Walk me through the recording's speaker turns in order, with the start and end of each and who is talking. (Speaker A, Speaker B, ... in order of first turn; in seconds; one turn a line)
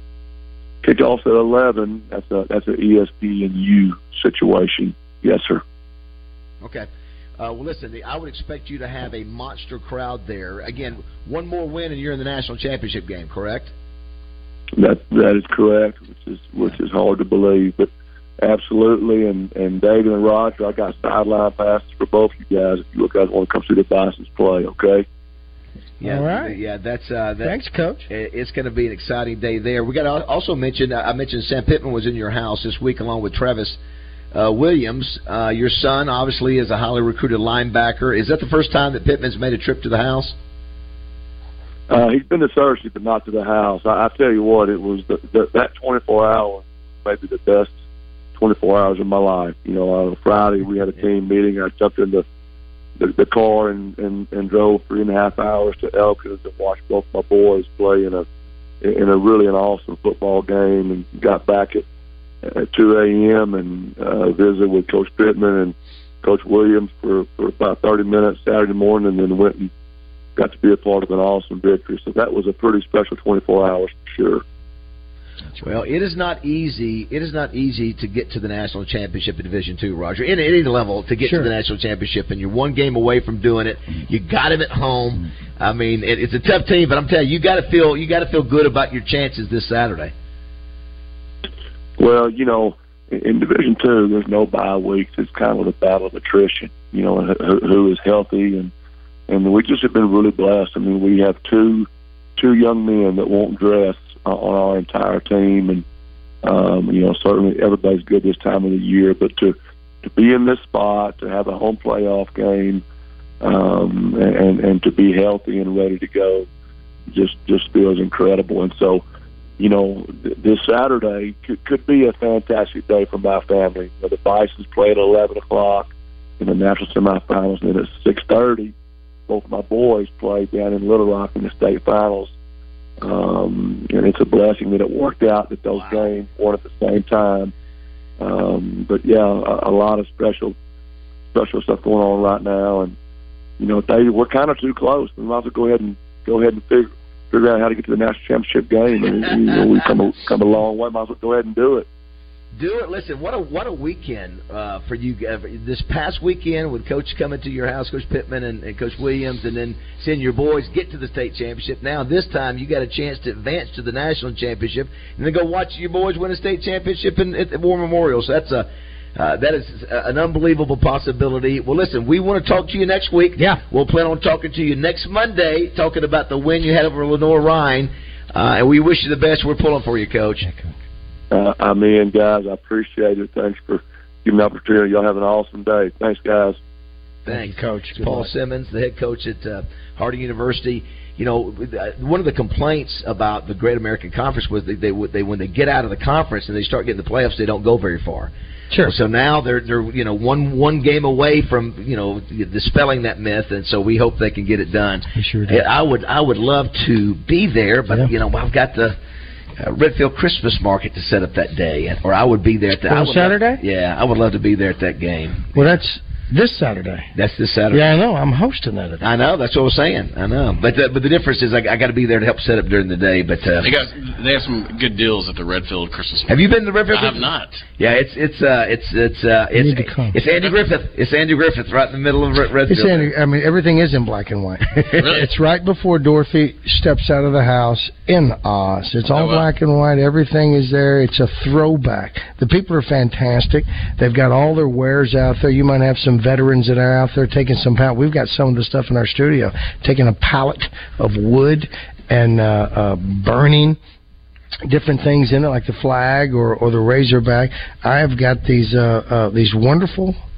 Speaker A: 0.8-5.6
Speaker B: 6.6-13.7
Speaker A: 14.8-17.9
Speaker A: 18.4-25.1
Speaker B: 26.0-33.8
Speaker C: 26.0-26.6
Speaker C: 27.4-28.1
Speaker B: 34.3-40.4
Speaker A: 41.9-47.8
Speaker A: 48.4-52.2
Speaker A: 53.0-58.3
Speaker A: 58.8-61.9
Speaker A: 62.5-69.7
Speaker A: 70.4-74.4
Speaker B: 75.6-90.1
Speaker C: 81.2-81.5
Speaker A: 92.0-98.7
Speaker A: 99.3-105.8
Speaker A: 106.4-112.8
Speaker A: 113.4-116.5
Speaker A: 117.1-119.0
Speaker A: 119.6-128.7
Speaker A: 129.3-132.3
Speaker A: 133.0-137.5
Speaker B: 135.7-136.1
Speaker A: 138.2-140.6
Speaker A: 141.3-143.0
Speaker A: 143.6-151.9
Speaker B: 152.5-180.5
Speaker C: 180.4-180.7
Speaker A: 181.3-186.6
Speaker B: 187.2-198.3
Speaker C: 187.3-188.3
Speaker B: 198.8-209.0
Speaker C: 205.2-205.6
Speaker B: 209.6-215.7
Speaker C: 212.9-213.6
Speaker C: 215.5-217.1
Speaker B: 217.2-218.0
Speaker C: 217.7-219.1
Speaker B: 219.0-223.7
Speaker D: 223.6-227.6
Speaker B: 226.3-227.3
Speaker B: 227.8-233.1
Speaker C: 229.5-230.2
Speaker C: 232.7-253.8
Speaker D: 235.0-235.3
Speaker D: 239.1-239.5
Speaker C: 254.7-260.2